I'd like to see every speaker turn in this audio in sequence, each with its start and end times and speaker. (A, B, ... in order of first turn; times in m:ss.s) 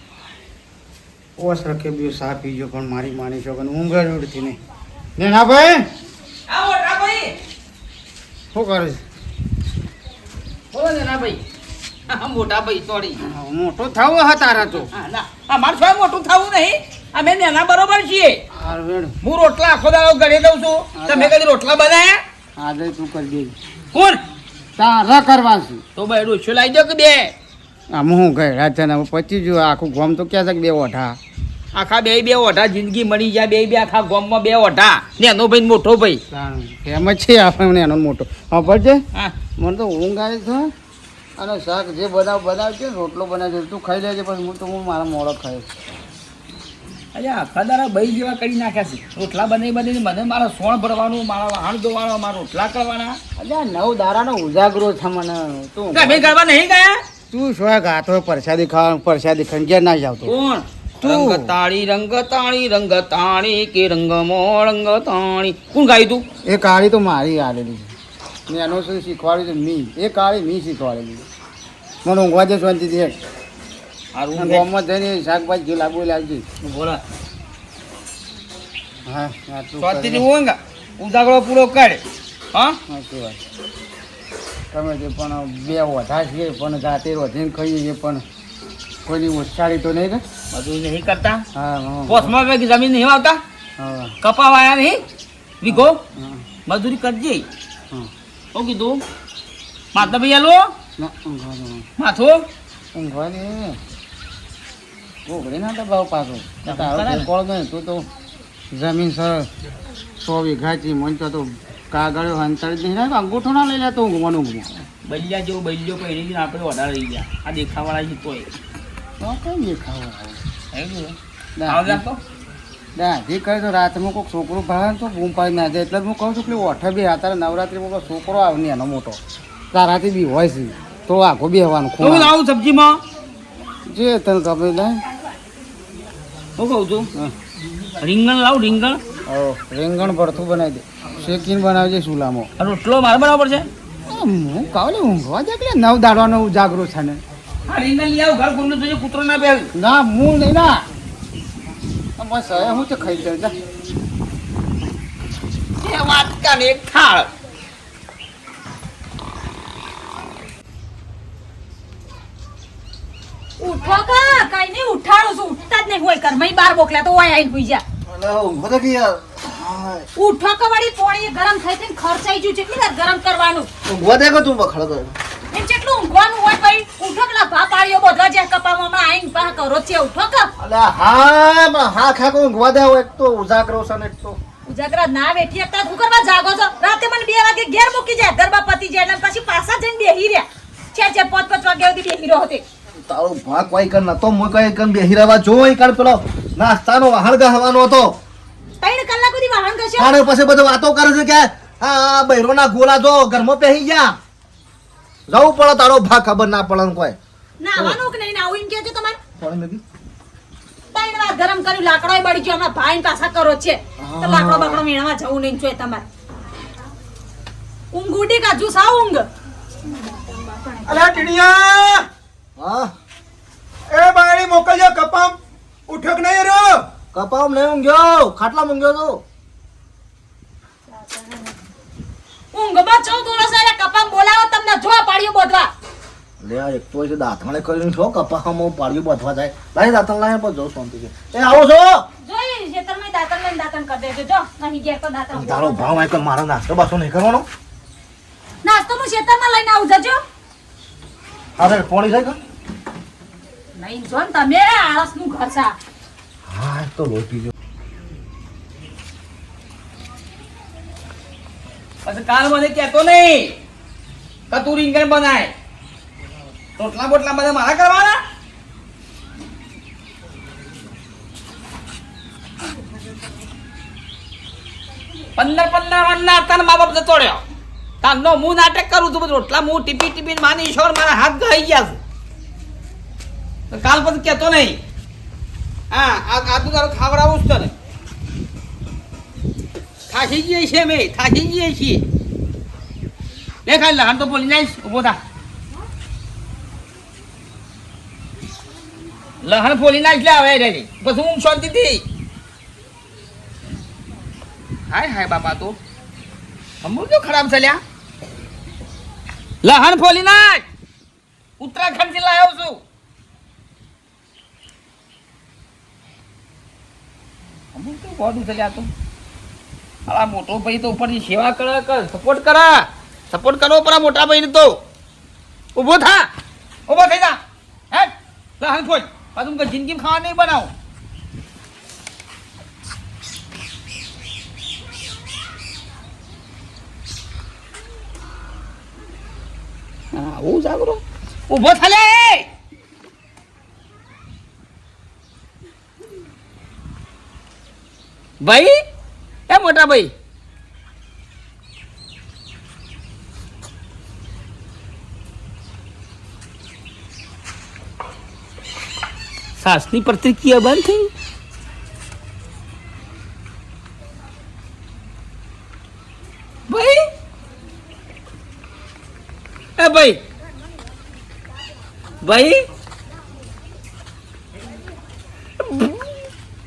0:01.4-0:04.6 A
0:05.2-0:05.9 A
0:06.5-0:07.3 B
0:08.5-0:09.0 A
0:10.7-0:11.4 B
0:12.1-0:13.2 B
0:13.2-0:14.9 A
0:14.9-0:18.4 B
0:18.5-0:19.1 A
0:19.2-0:22.2 B
0:21.0-0:21.3 A
0:22.6-0:23.5 A
0:23.9-0:24.2 B
0:24.8-0:25.8 A
0:26.0-0:27.3 B
0:27.9-0:31.2 A
0:31.7-0:36.2 B
0:36.3-0:39.0 A
0:39.6-0:40.7 A
0:41.4-0:45.7 A
0:47.1-0:53.2 B
0:53.4-0:56.3 A
0:55.9-0:57.0 B
0:57.3-1:00.3 A
1:00.2-1:06.2 B
1:01.0-1:01.5 A
1:06.4-1:07.9 A
1:08.5-1:11.2 A
1:12.0-1:13.2 A
1:14.1-1:14.6 B
1:14.4-1:16.4 A
1:16.6-1:17.0 B
1:19.1-1:20.2 A
1:19.8-1:22.0 B
1:22.9-1:23.4 A
1:24.7-1:28.2 A
1:29.0-1:30.2 A
1:30.5-1:31.4 B
1:31.5-1:32.3 A
1:32.1-1:33.4 B
1:33.8-1:34.1 A
1:34.2-1:35.0 B
1:35.6-1:36.0 B
1:35.7-1:36.4 A
1:36.6-1:37.4 B
1:38.5-1:39.0 B
1:39.9-1:40.7 B
1:41.0-1:41.9 A
1:42.0-1:42.4 B
1:42.9-1:43.8 A
1:45.2-1:48.0 A
1:46.6-1:47.3 B
1:48.7-1:49.5 A
1:50.2-1:54.8 A
1:55.0-1:58.5 B
1:59.2-2:00.4 A
2:00.7-2:01.2 B
2:01.6-2:02.0 A
2:01.7-2:02.2 B
2:03.0-2:09.2 A
2:09.7-2:12.3 A
2:12.0-2:13.0 B
2:13.9-2:15.0 A
2:16.6-2:17.1 B
2:18.0-2:19.0 B
2:19.3-2:22.5 A
2:22.6-2:23.7 B
2:24.1-2:27.2 A
2:27.7-2:29.7 B
2:29.7-2:30.8 A
2:32.2-2:33.5 A
2:35.8-2:37.3 B
2:43.6-2:47.8 C
2:48.1-2:50.1 D
2:50.2-2:53.7 C
2:53.8-2:55.2 D
2:55.5-3:00.5 C
3:00.6-3:04.4 D
3:04.7-3:12.6 C
3:13.0-3:18.2 D
3:18.8-3:20.1 C
3:20.0-3:24.2 D
3:25.3-3:27.2 D
3:27.6-3:29.2 C
3:29.4-3:29.8 D
3:30.9-3:36.0 C
3:34.0-3:34.8 D
3:37.9-3:39.2 C
3:39.9-3:41.2 C
3:40.8-3:42.1 E
3:42.6-3:42.9 D
3:43.9-3:45.4 E
3:45.9-3:46.9 E
3:47.1-3:49.2 D
3:50.9-3:51.5 C
3:52.5-3:55.7 C
3:56.4-4:02.0 D
4:02.2-4:06.0 C
4:05.3-4:07.5 D
4:08.6-4:10.2 C
4:11.6-4:12.4 D
4:13.8-4:15.7 C
4:16.5-4:17.5 D
4:22.0-4:23.5 B
4:24.5-4:25.5 B
4:26.8-4:28.2 B
4:35.4-4:37.4 B
4:38.0-4:42.0 B
4:43.7-4:44.8 B
4:45.9-4:47.7 B
4:50.1-4:52.0 B
4:53.6-4:55.2 B
4:59.4-5:02.0 B
5:04.9-5:05.8 B
5:06.8-5:07.8 B
5:09.6-5:10.6 B
5:11.6-5:12.8 B
5:17.7-5:18.9 B
5:20.1-5:24.8 B
5:25.8-5:26.3 B
5:26.9-5:27.4 B
5:27.9-5:30.7 B
5:40.1-5:42.5 B
5:48.4-5:48.7 B
5:49.5-5:50.1 B
5:59.6-6:01.1 B
6:06.7-6:07.0 B
6:09.8-6:10.2 B
6:12.2-6:12.6 B
6:15.6-6:16.0 B